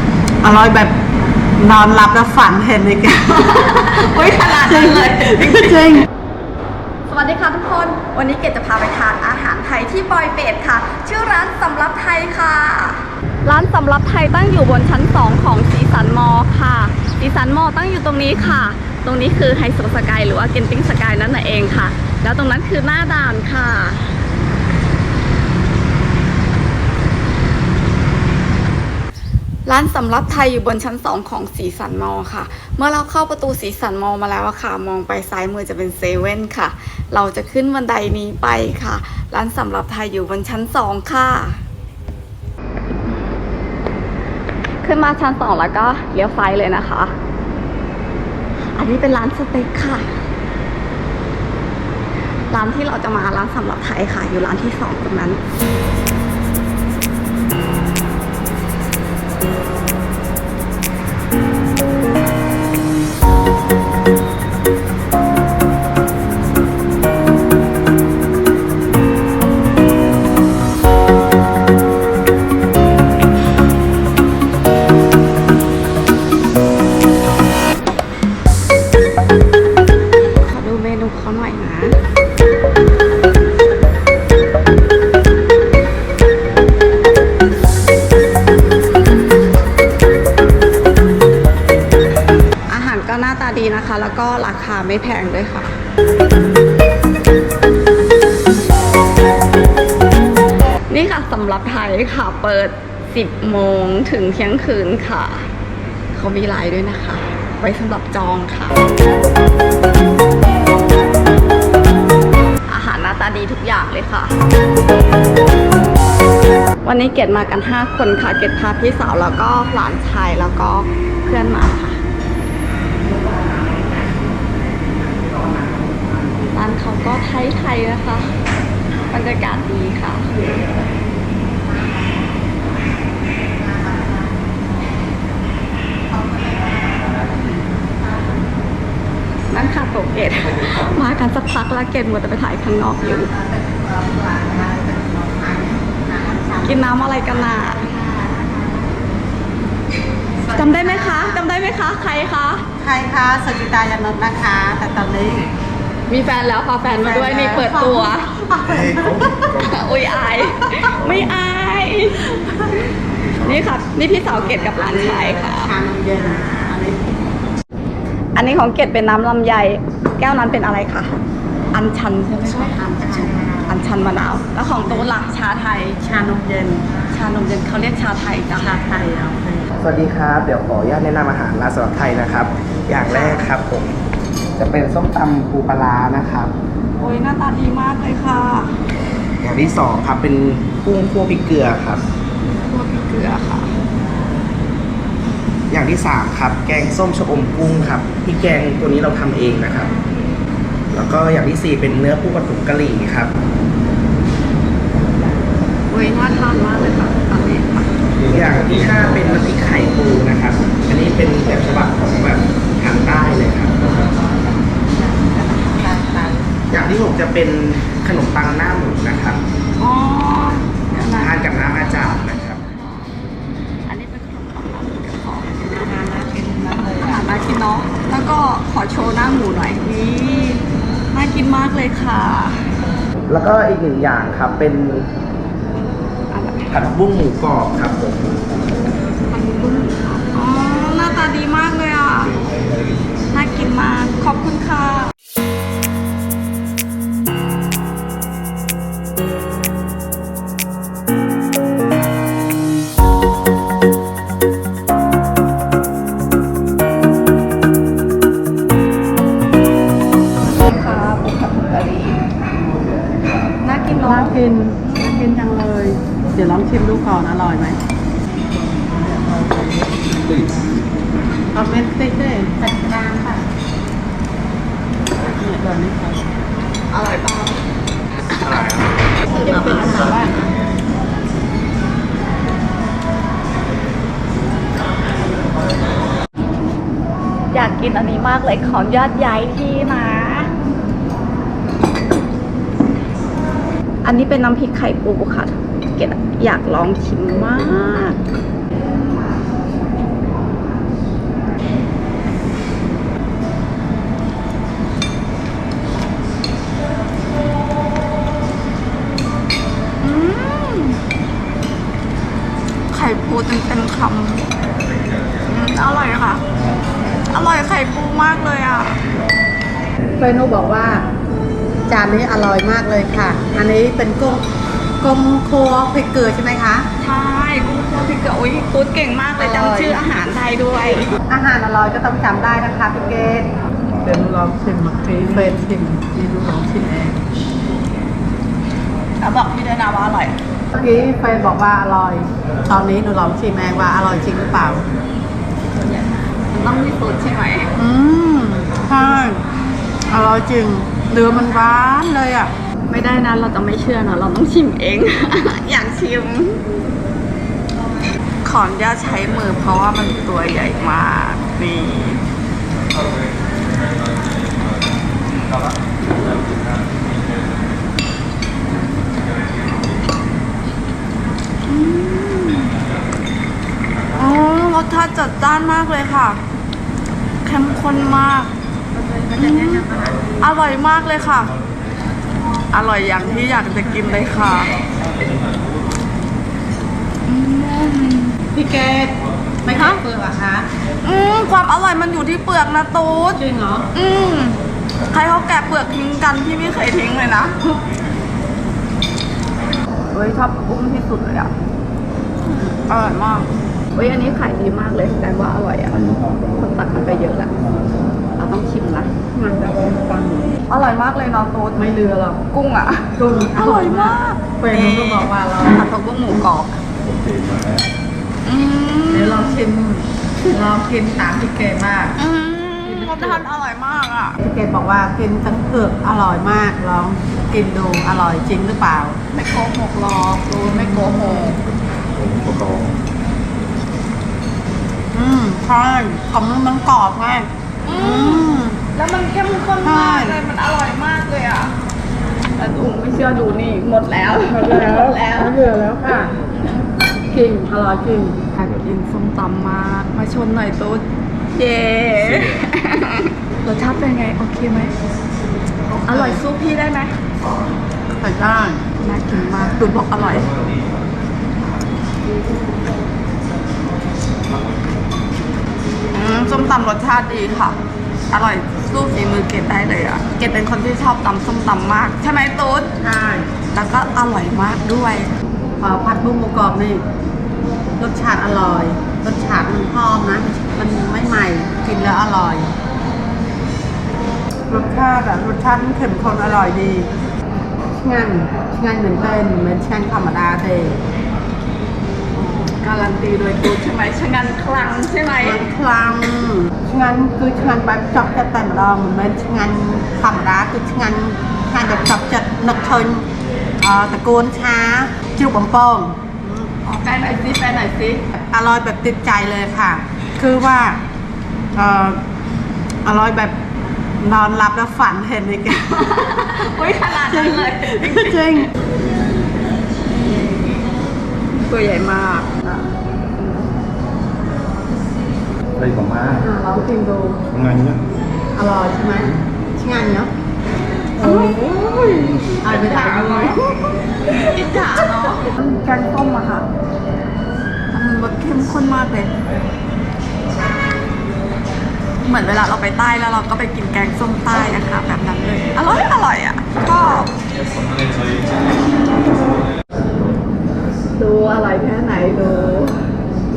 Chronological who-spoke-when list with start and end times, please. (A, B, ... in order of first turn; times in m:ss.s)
0:00.4-0:01.0 A
0:01.6-0:03.4 A
0:03.2-0:05.8 B
0:04.6-0:06.0 A
0:07.1-0:24.2 B
0:29.6-0:41.6 B
0:44.8-0:47.1 B
0:48.8-0:50.1 B
0:52.5-0:55.4 B
1:20.4-1:22.0 B
1:32.7-1:35.7 B
1:40.9-1:45.5 B
1:46.1-1:48.8 B
1:52.7-1:54.3 B
1:56.8-2:02.0 B
2:06.5-2:08.3 B
2:09.1-2:10.3 B
2:11.5-2:12.3 A
2:13.5-2:15.0 A
2:16.1-2:18.4 A
2:19.5-2:23.3 B
2:23.0-2:28.8 A
2:26.6-2:28.0 B
2:30.4-2:31.4 A
2:30.5-2:32.6 B
2:32.8-2:35.5 A
2:36.1-2:38.4 B
2:36.9-2:39.5 A
2:39.2-2:42.8 B
2:43.4-2:45.7 B
2:44.4-2:47.1 A
2:48.4-2:51.2 B
2:51.7-2:56.0 B
2:52.4-2:53.6 A
2:54.8-2:55.1 A
2:56.0-2:57.0 A
2:57.1-2:58.7 B
2:58.5-2:59.7 A
2:59.8-3:04.0 C
3:03.1-3:03.4 A
3:04.6-3:06.5 C
3:07.0-3:08.8 B
3:09.4-3:12.0 C
3:12.7-3:13.7 B
3:15.7-3:19.9 C
3:20.9-3:23.3 C
3:25.9-3:27.9 B
3:28.3-3:33.8 C
3:34.9-3:36.5 A
3:36.7-3:39.4 C
3:39.8-3:41.6 B
3:41.1-3:42.6 C
3:42.6-3:43.1 B
3:43.8-3:46.1 B
3:45.7-3:47.4 A
3:47.0-3:52.7 B
3:53.3-3:55.1 C
3:56.3-3:56.8 B
3:56.7-3:58.3 C
3:59.3-4:02.4 B
4:03.3-4:05.1 B
4:20.5-4:22.2 B
4:23.6-4:25.2 B
4:24.0-4:27.8 A
4:28.6-4:30.9 A
4:31.5-4:33.4 A
4:35.3-4:36.3 A
4:36.9-4:37.6 B
4:38.2-4:40.5 B
4:47.5-4:50.5 B
4:54.0-4:58.2 B
5:10.0-5:11.0 B
5:12.9-5:14.5 B
5:15.4-5:16.4 B
5:17.3-5:19.0 B
5:20.2-5:21.0 A
5:21.9-5:24.4 A
5:25.0-5:26.9 A
5:27.0-5:31.1 B
5:29.4-5:30.0 A
5:31.3-5:37.2 A
5:35.2-5:35.7 B
5:39.2-5:40.4 B
5:40.7-5:44.8 A
5:45.7-5:47.7 B
5:47.8-5:49.4 A
5:50.1-5:52.5 A
5:52.8-5:56.7 B
5:58.4-6:02.2 B
6:08.7-6:09.0 B
6:11.6-6:12.7 B
6:14.2-6:16.4 B
6:17.4-6:18.5 B
6:18.9-6:20.1 A
6:19.3-6:21.5 B
6:22.7-6:24.7 B
6:27.2-6:28.4 B
6:28.5-6:30.7 A
6:31.0-6:33.4 B
6:33.3-6:33.9 A
6:33.9-6:37.8 B
6:40.1-6:41.5 B
6:42.4-6:47.5 B
6:48.4-6:56.8 B
6:51.8-6:52.4 A
6:53.2-6:55.8 A
6:57.3-6:57.8 D
6:58.4-6:59.7 B
6:59.1-7:02.2 A
7:02.2-7:04.4 B
7:02.8-7:03.4 A
7:04.4-7:09.2 A
7:09.3-7:11.6 B
7:10.6-7:11.5 A
7:12.2-7:12.9 D
7:15.1-7:18.8 A
7:17.8-7:21.8 B
7:19.8-7:20.4 A
7:22.6-7:25.6 B
7:24.7-7:26.3 A
7:27.3-7:28.7 A
7:28.7-7:31.0 B
7:31.5-7:34.9 B
7:36.0-7:36.5 A
7:36.0-7:37.1 B
7:38.2-7:38.8 A
7:39.0-7:40.5 B
7:46.1-7:47.8 B
7:48.3-7:53.0 B
7:53.0-7:53.5 A
7:53.6-7:55.3 B
7:55.8-7:57.0 A
7:58.0-8:02.7 A
8:04.7-8:07.1 A
8:07.9-8:11.0 A
8:12.3-8:15.7 B
8:15.4-8:23.2 A
8:23.8-8:26.7 A
8:26.8-8:28.3 B
8:28.3-8:31.0 A
8:31.7-8:32.2 A
8:33.0-8:33.6 A
8:34.2-8:35.8 A
8:35.7-8:38.7 B
8:37.2-8:38.7 A
8:41.5-8:43.7 B
8:45.8-8:46.3 D
8:46.4-8:47.4 A
8:47.6-8:48.0 D
8:48.5-8:50.3 A
8:51.2-8:51.6 A
8:51.2-8:56.7 B
8:52.6-8:53.6 A
8:57.9-8:59.3 B
9:02.2-9:07.3 B
9:11.2-9:13.0 B